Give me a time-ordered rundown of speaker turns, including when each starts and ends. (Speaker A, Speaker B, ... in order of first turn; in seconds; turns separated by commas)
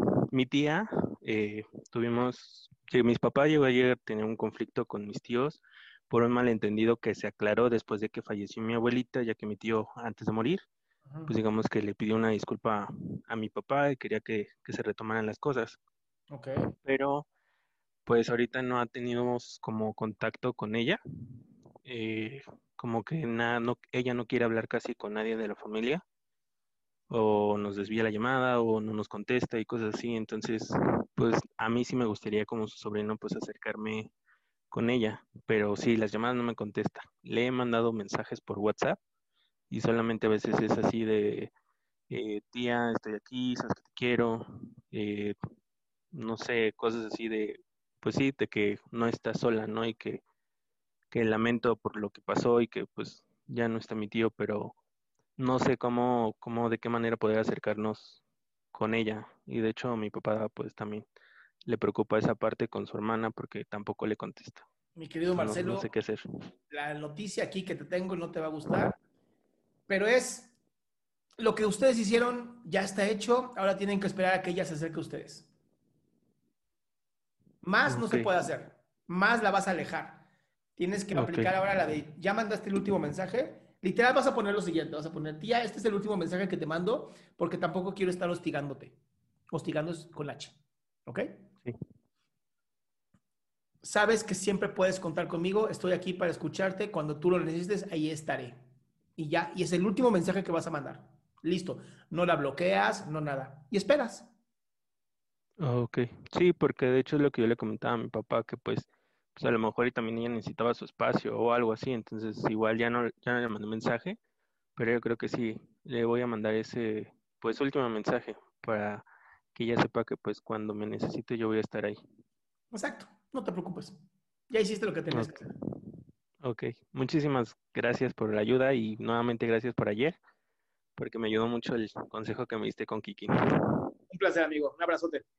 Speaker A: 0.3-10.7, Speaker B: 11.1-11.3, Speaker A: 11.2-15.8, Speaker A: 16.8-17.3, Speaker A: 18.1-21.0, Speaker A: 21.8-26.0, Speaker A: 27.1-34.1, Speaker A: 34.7-39.0, Speaker A: 39.7-41.5, Speaker A: 42.1-45.4, Speaker A: 46.1-50.2, Speaker A: 51.1-54.8, Speaker A: 55.4-58.2, Speaker A: 58.7-61.1, Speaker A: 61.7-64.7, Speaker B: 65.0-65.9, Speaker A: 65.3-66.2, Speaker B: 66.7-69.0, Speaker B: 69.9-70.5, Speaker B: 71.4-75.5, Speaker B: 77.6-80.2, Speaker A: 77.9-78.3, Speaker B: 80.8-89.0, Speaker A: 81.1-81.7, Speaker B: 89.5-91.3, Speaker B: 93.8-98.6, Speaker B: 99.2-104.3, Speaker A: 105.6-114.2, Speaker A: 114.8-122.0, Speaker B: 122.7-124.0, Speaker B: 124.5-125.4, Speaker A: 125.1-125.5, Speaker A: 126.4-130.2, Speaker A: 131.0-133.4, Speaker B: 134.1-135.2